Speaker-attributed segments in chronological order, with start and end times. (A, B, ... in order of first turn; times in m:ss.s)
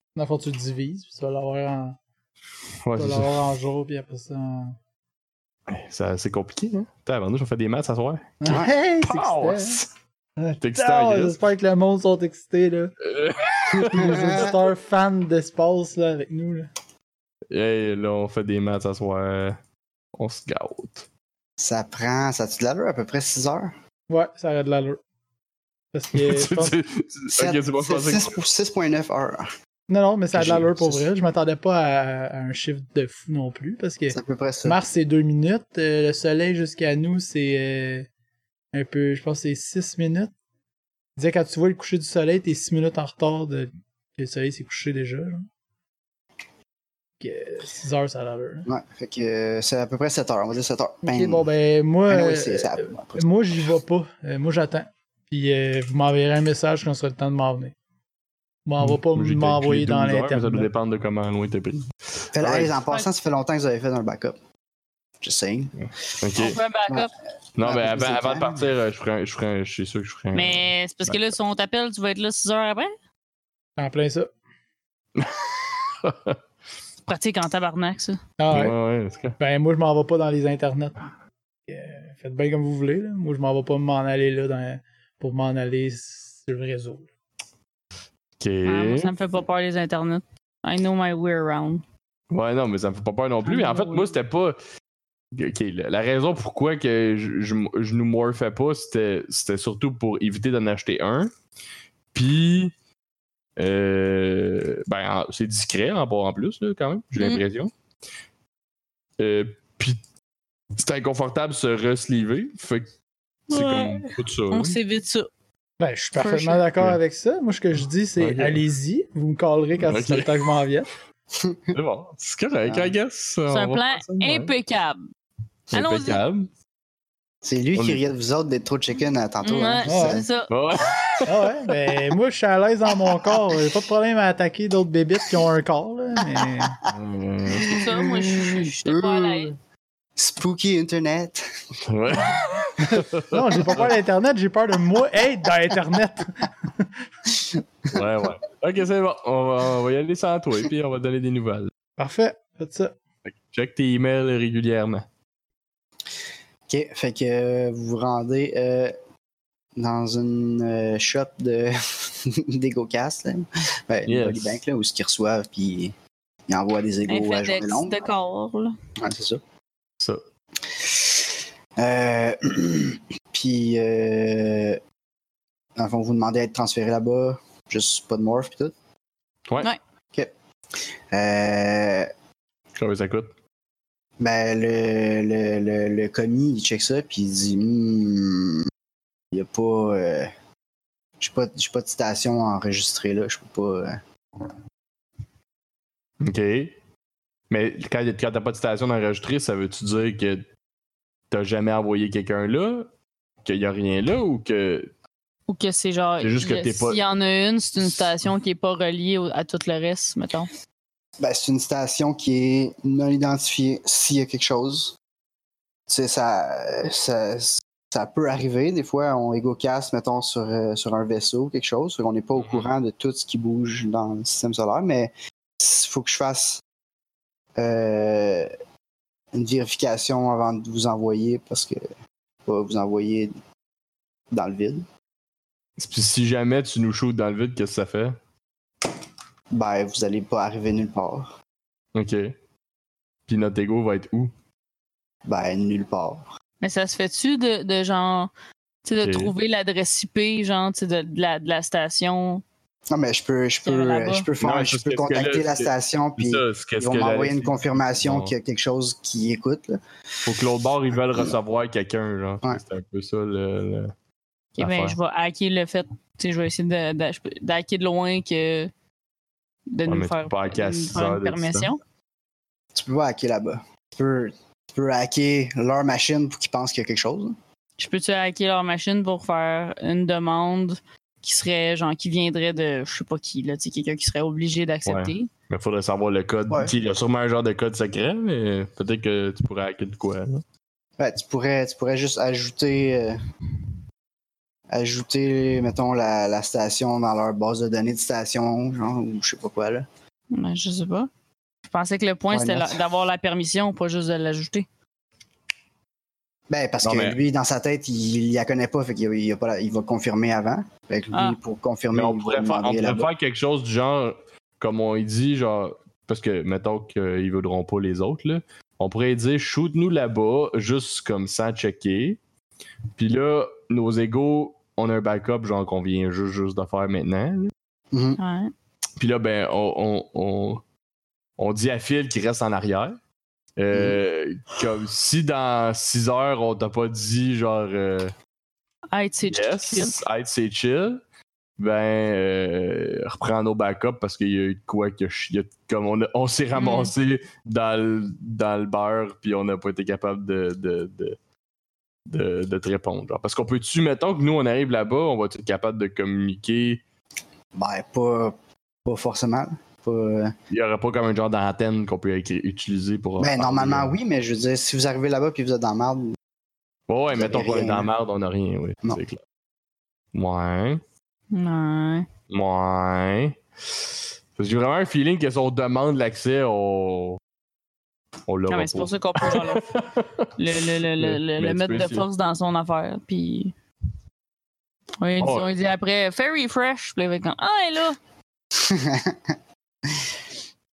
0:00.2-0:02.0 A
0:02.8-0:03.3 B
0:03.0-0:04.8 A
0:05.7-0:09.9 B
0:08.4-0:09.8 A
0:10.4-0:12.9 A
0:10.6-0:11.4 B
0:13.0-0:14.4 B
0:13.7-0:14.5 C
0:13.9-0:16.7 A
0:17.5-0:19.6 B
0:20.1-0:21.0 B
0:21.6-0:23.7 C
0:24.1-0:25.0 A
0:25.9-0:26.7 A
0:26.1-0:28.4 B
0:27.3-0:29.5 C
0:29.9-0:38.1 A
0:30.3-0:31.0 C
0:34.1-0:34.8 C
0:38.7-0:40.3 A
0:41.2-0:45.4 A
0:47.2-0:48.7 A
0:48.7-0:51.4 C
0:51.0-0:57.7 A
0:52.1-0:53.3 C
0:58.6-1:00.7 A
0:58.8-1:02.8 B
1:02.3-1:04.4 C
1:05.2-1:05.8 C
1:05.8-1:06.6 B
1:06.4-1:07.1 D
1:06.9-1:08.7 C
1:07.6-1:11.2 B
1:10.3-1:12.9 D
1:13.8-1:14.3 A
1:15.2-1:16.4 B
1:17.1-1:18.2 D
1:18.4-1:18.7 A
1:18.5-1:19.4 B
1:19.4-1:21.0 A
1:21.7-1:27.1 A
1:28.4-1:29.1 B
1:28.6-1:31.8 D
1:32.3-1:34.6 B
1:33.4-1:34.1 D
1:35.3-1:41.3 B
1:42.1-1:42.7 B
1:43.6-1:47.7 B
1:47.2-1:47.4 D
1:49.2-1:50.0 B
1:50.8-1:52.9 B
1:53.5-1:54.8 B
1:53.5-1:55.3 D
1:55.8-2:00.9 A
1:56.2-1:56.6 D
1:58.2-1:58.6 B
1:59.8-2:00.4 B
2:01.3-2:01.8 C
2:01.7-2:04.5 B
2:02.6-2:02.9 C
2:03.5-2:05.0 D
2:05.7-2:06.5 B
2:05.7-2:06.2 D
2:07.4-2:10.3 C
2:07.8-2:08.0 B
2:09.4-2:10.5 D
2:09.9-2:10.2 A
2:10.5-2:11.6 B
2:11.2-2:16.8 A
2:16.4-2:16.9 C
2:16.9-2:17.8 B
2:17.5-2:19.5 C
2:17.6-2:19.5 D
2:20.2-2:21.4 C
2:21.8-2:23.9 B
2:22.8-2:26.9 A
2:27.9-2:31.7 B
2:32.0-2:32.9 A
2:33.2-2:35.0 B
2:36.7-2:38.9 C
2:39.8-2:45.9 C
2:44.1-2:44.6 B
2:46.5-2:47.9 C
2:47.1-2:48.7 D
2:49.0-2:49.4 C
2:50.6-2:54.8 C
2:55.8-2:58.7 C
3:01.1-3:02.1 C
3:02.8-3:03.3 B
3:04.2-3:08.7 C
3:09.3-3:10.3 C
3:11.2-3:14.0 C
3:16.2-3:16.8 B
3:17.5-3:20.5 B
3:21.3-3:22.9 B
3:23.4-3:24.9 B
3:25.5-3:30.5 D
3:26.2-3:27.0 B
3:31.2-3:35.0 C
3:35.9-3:46.6 C
3:42.4-3:42.7 B
3:47.6-3:48.5 C
3:49.3-3:51.8 C
3:52.4-3:53.3 C
3:54.3-3:54.8 C
3:55.8-3:58.2 B
3:59.5-4:01.3 C
4:01.9-4:02.3 B
4:03.3-4:04.3 B
4:05.2-4:06.3 C
4:06.6-4:08.3 D
4:08.8-4:12.4 D
4:09.0-4:09.3 B
4:12.9-4:19.8 C
4:13.6-4:14.2 D
4:14.4-4:18.3 B
4:20.2-4:23.9 B
4:24.6-4:25.0 B
4:24.6-4:28.7 D
4:29.7-4:31.8 D
4:29.8-4:31.7 B
4:32.7-4:37.4 C
4:37.8-4:45.3 D
4:44.8-4:50.4 B
4:51.0-4:53.2 C
4:54.7-4:59.9 C
5:00.3-5:01.1 D
5:01.7-5:04.6 D
5:02.3-5:02.8 C
5:06.5-5:13.1 C
5:06.8-5:07.2 B
5:11.9-5:22.2 B
5:23.0-5:27.5 B
5:27.9-5:28.2 C
5:28.2-5:28.5 D
5:29.0-5:30.6 B
5:31.4-5:33.0 B
5:33.6-5:38.1 B
5:33.7-5:34.0 C
5:38.9-5:40.0 D
5:39.3-5:41.0 B
5:41.6-5:51.2 B
5:46.5-5:46.9 D
5:52.1-5:56.8 B
5:57.5-6:00.3 C
6:00.5-6:03.9 B
6:03.2-6:06.2 C
6:06.9-6:09.2 B
6:07.1-6:07.9 C
6:10.1-6:10.8 B
6:11.3-6:12.1 D
6:12.3-6:13.8 B
6:14.4-6:17.2 B
6:18.3-6:22.0 B
6:18.5-6:19.7 D
6:20.4-6:23.5 D
6:25.0-6:28.0 D
6:25.2-6:25.5 B
6:28.5-6:29.3 C